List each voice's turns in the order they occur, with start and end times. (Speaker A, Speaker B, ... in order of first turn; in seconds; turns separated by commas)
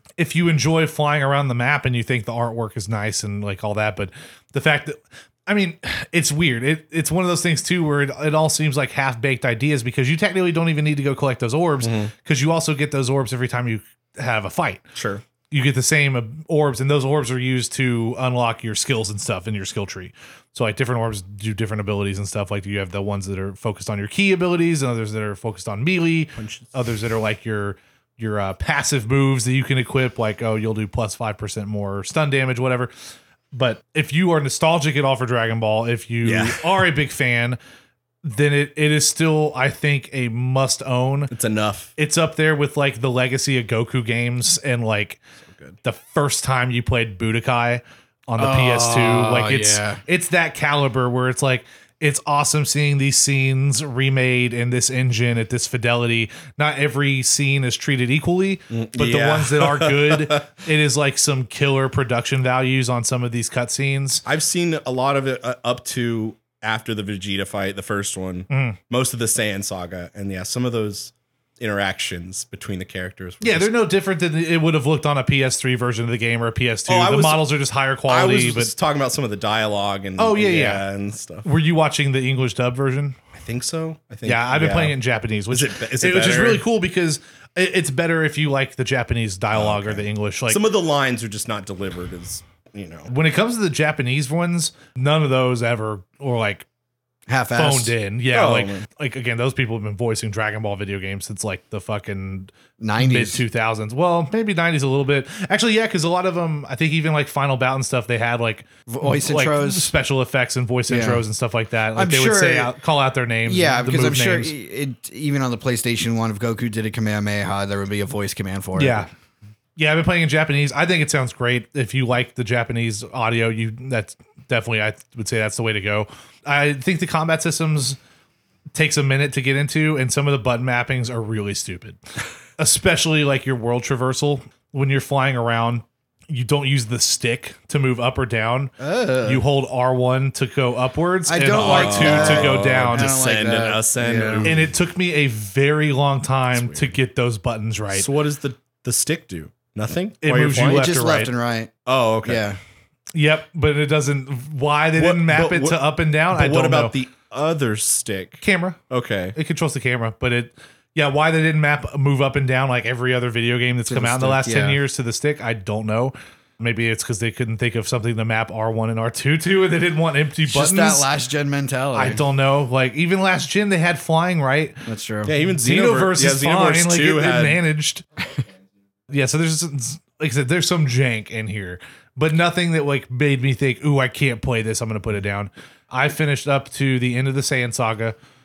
Speaker A: 0.2-14.8, Speaker B: 11.8-12.1, Speaker B: 14.9-15.2, Speaker A: 15.5-32.9, Speaker B: 26.4-26.7, Speaker A: 33.5-37.6, Speaker B: 36.2-36.6, Speaker A: 38.2-41.3, Speaker B: 41.3-41.9, Speaker A: 42.0-45.2, Speaker A: 45.8-64.2, Speaker C: 48.4-50.0, Speaker B: 58.7-60.5, Speaker B: 64.3-73.7, Speaker A: 68.5-68.8, Speaker A: 73.4-78.7, Speaker B: 76.9-77.5, Speaker B: 78.1-81.5, Speaker A: 80.2-80.8, Speaker A: 81.4-83.2, Speaker B: 83.3-85.0, Speaker A: 84.2-90.6, Speaker B: 85.5-86.6, Speaker B: 89.5-93.1, Speaker A: 93.1-96.7, Speaker C: 97.3-98.0, Speaker A: 97.5-114.5, Speaker B: 98.3-98.9, Speaker C: 102.8-103.4, Speaker C: 108.9-109.9, Speaker C: 110.9-111.2, Speaker C: 112.0-112.7, Speaker C: 113.5-119.1, Speaker A: 118.8-119.1, Speaker A: 119.8-128.0, Speaker A: 128.8-132.0, Speaker A: 132.6-143.2, Speaker C: 138.8-139.4, Speaker C: 141.3-144.7, Speaker B: 141.5-144.7, Speaker A: 144.4-148.1, Speaker B: 146.5-146.9, Speaker B: 147.9-150.9, Speaker A: 150.2-151.3, Speaker C: 150.5-151.7, Speaker B: 151.9-152.4, Speaker C: 152.2-152.6, Speaker A: 153.1-156.9, Speaker B: 155.0-159.4, Speaker A: 158.4-158.8, Speaker A: 159.3-171.1, Speaker C: 163.9-164.8, Speaker C: 170.5-172.2, Speaker A: 171.9-174.8, Speaker C: 174.8-175.3, Speaker B: 175.3-177.6, Speaker A: 175.6-178.0, Speaker A: 179.1-188.2